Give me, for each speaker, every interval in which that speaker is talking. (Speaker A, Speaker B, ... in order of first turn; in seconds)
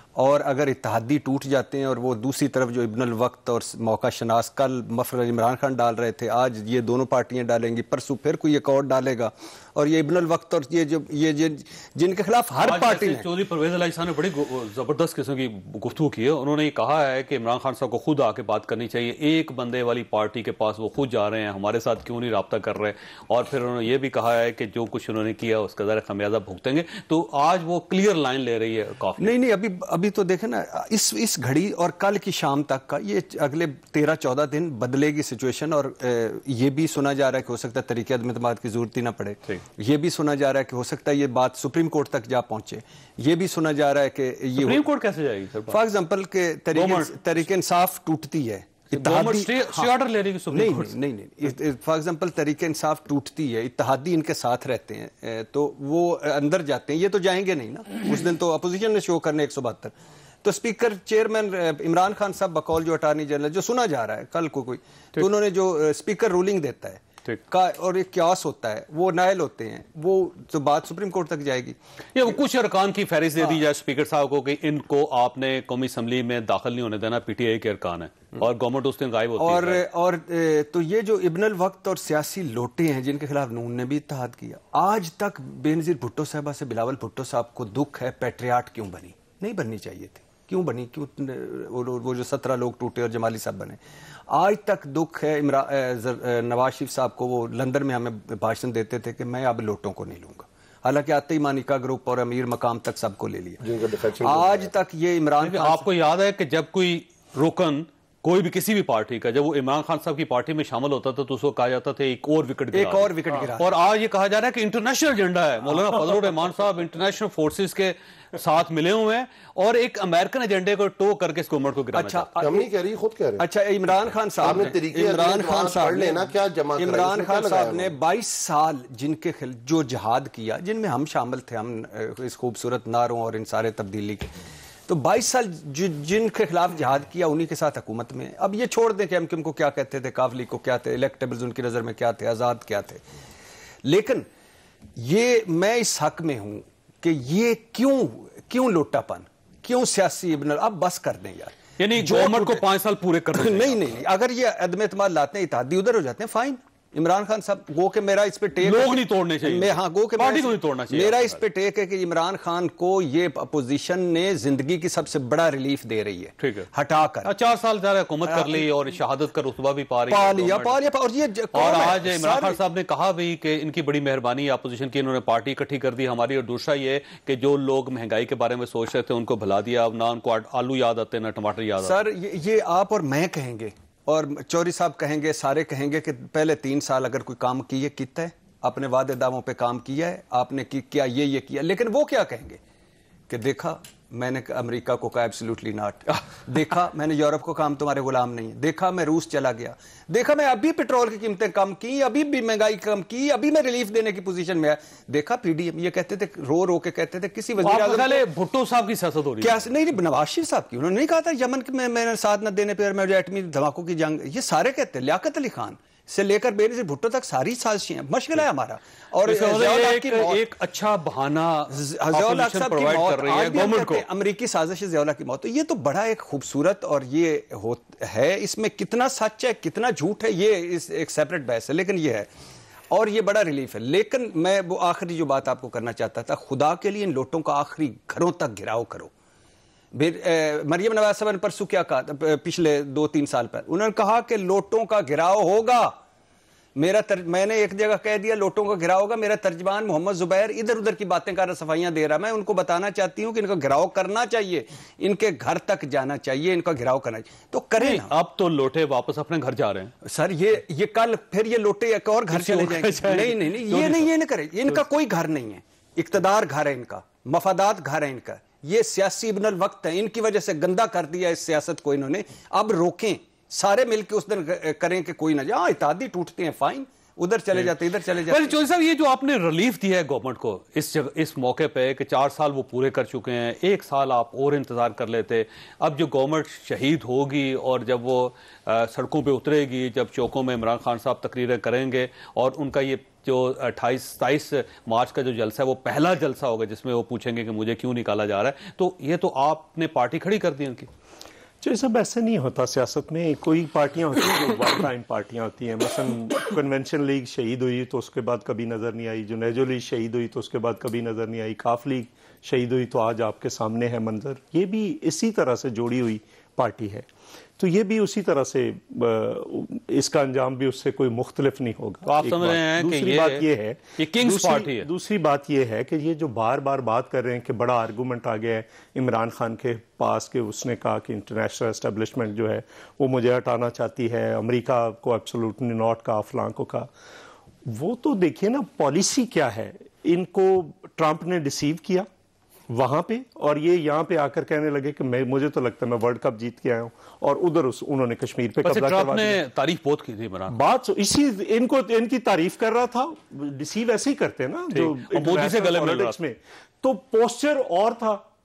Speaker A: 0.2-13.3, 29.2-44.9, 45.7-49.9, 50.5-71.8, 73.4-73.6, 79.4-93.8, 94.3-103.6, 104.2-105.9, 112.7-113.8, 121.9-122.7, 123.4-134.4, 134.9-143.0, 143.8-144.3, 144.9-152.6, 153.3-167.3, 168.2-168.7, 170.1-172.6, 181.8-192.6, 193.3-208.2, 209.4-220.4, 221.7-232.3, 232.9-239.1, 239.9-246.0, 246.8-258.1, 260.0-278.6
Speaker B: 12.6-29.4, 44.6-45.8, 46.7-47.5, 48.9-51.0, 72.1-79.8, 105.4-122.3, 151.8-154.0, 158.6-161.4, 166.4-166.7, 167.2-170.8, 171.5-182.0, 207.6-209.6, 219.2-224.1, 257.8-259.9, 262.3-264.1, 278.3-300.9, 322.1-323.4, 324.0-324.9, 348.6-350.6, 354.7-356.1
Speaker C: 103.6-104.7, 122.4-123.4, 124.4-127.9
Speaker D: 301.6-317.1, 317.6-336.9, 337.6-342.1, 342.7-349.4, 350.5-358.2